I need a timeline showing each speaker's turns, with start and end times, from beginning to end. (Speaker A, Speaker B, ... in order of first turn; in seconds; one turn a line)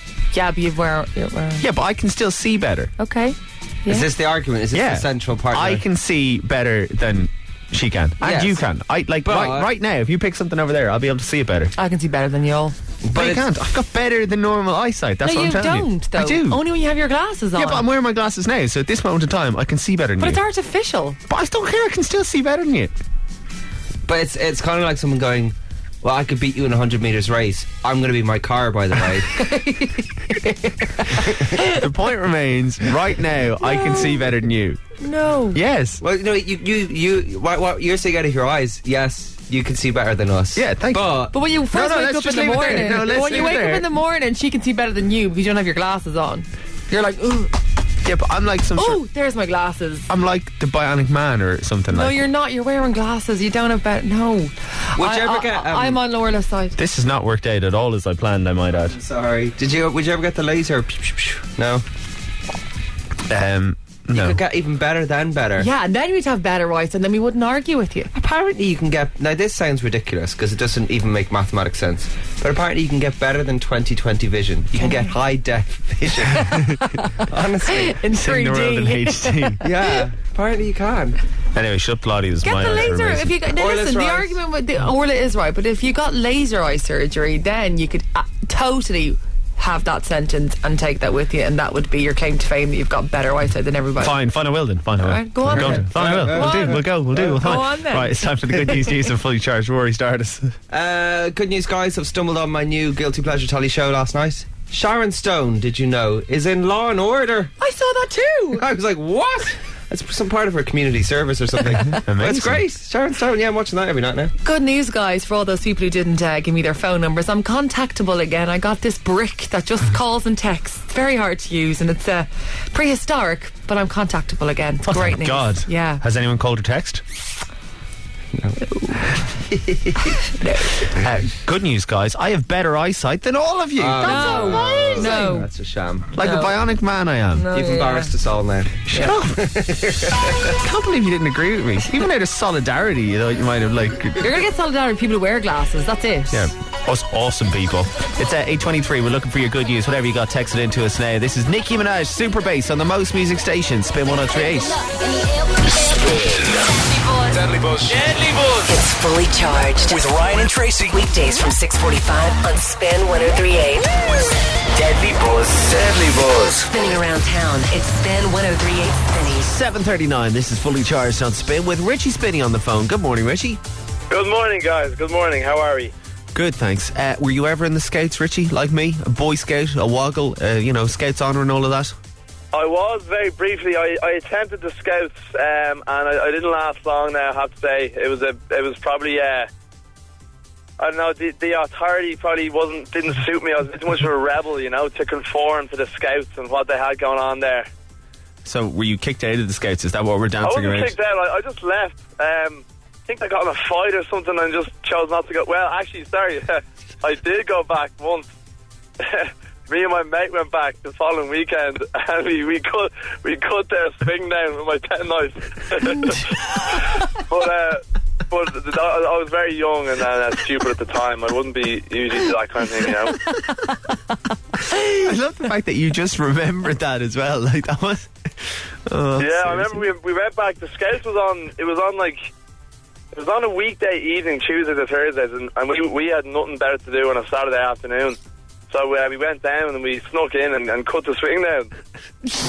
Speaker A: 0.3-1.7
Speaker B: 1.6-2.9
Speaker A: 3.0-4.1
Speaker C: 3.9-5.8
Speaker B: 4.7-11.7
Speaker C: 8.2-8.6
Speaker C: 9.2-9.7
Speaker A: 11.8-12.8
Speaker C: 13.0-13.4
Speaker B: 13.1-16.6
Speaker A: 15.2-17.9
Speaker B: 17.6-20.4
Speaker A: 20.2-21.2
Speaker B: 21.3-22.9
Speaker C: 24.1-29.4
Speaker A: 29.4-31.8
Speaker B: 31.6-34.8
Speaker A: 33.6-34.2
Speaker A: 35.0-35.6
Speaker B: 35.5-36.0
Speaker C: 36.0-41.3
Speaker B: 40.5-43.9
Speaker A: 41.3-47.5
Speaker C: 42.9-43.3
Speaker B: 48.0-49.0
Speaker A: 48.8-50.1
Speaker B: 50.1-52.2
Speaker A: 51.9-56.8
Speaker C: 55.0-56.0
Speaker B: 56.8-59.0
Speaker C: 59.0-61.8
Speaker B: 63.3-64.4
Speaker C: 64.1-65.7
Speaker A: 65.6-68.1
Speaker C: 68.1-76.5
Speaker A: 76.3-79.9
Speaker C: 77.2-78.0
Speaker B: 78.1-79.6
Speaker C: 79.6-81.2
Speaker B: 81.5-83.3
Speaker A: 82.4-94.2
Speaker C: 83.5-84.4
Speaker B: 94.0-100.5
Speaker A: 95.0-98.2
Speaker C: 95.5-97.4
Speaker C: 100.7-107.5
Speaker A: 107.6-108.6
Speaker C: 108.5-114.3
Speaker B: 111.9-112.6
Speaker A: 114.4-126.0
Speaker B: 124.9-127.0
Speaker C: 128.3-128.6
Speaker A: 128.7-129.0
Speaker C: 129.5-130.1
Speaker A: 130.2-130.8
Speaker B: 130.9-135.3
Speaker C: 133.8-136.1
Speaker A: 134.0-135.5
Speaker B: 136.2-137.5
Speaker A: 136.2-136.6
Speaker A: 137.3-138.1
Speaker C: 137.5-140.5
Speaker B: 138.9-139.5
Speaker B: 140.6-144.2
Speaker A: 144.2-146.5
Speaker B: 146.3-154.8
Speaker D: 155.9-156.7
Speaker D: 157.3-158.7
Speaker E: 158.7-160.0
Speaker D: 159.8-161.0
Speaker E: 160.9-164.0
Speaker D: 164.7-166.7
Speaker E: 166.7-169.5
Speaker B: 169.4-173.6
Speaker F: 174.1-175.9
Speaker B: 176.3-181.9
Speaker F: 182.5-189.5
Speaker F: 190.8-197.7
Speaker B: 198.4-200.9
Speaker F: 200.4-208.3
Speaker F: 209.0-223.2
Speaker B: 224.7-228.3
Speaker B: 228.8-229.9
Speaker F: 229.2-232.3
Speaker F: 233.1-238.2
Speaker F: 238.7-241.7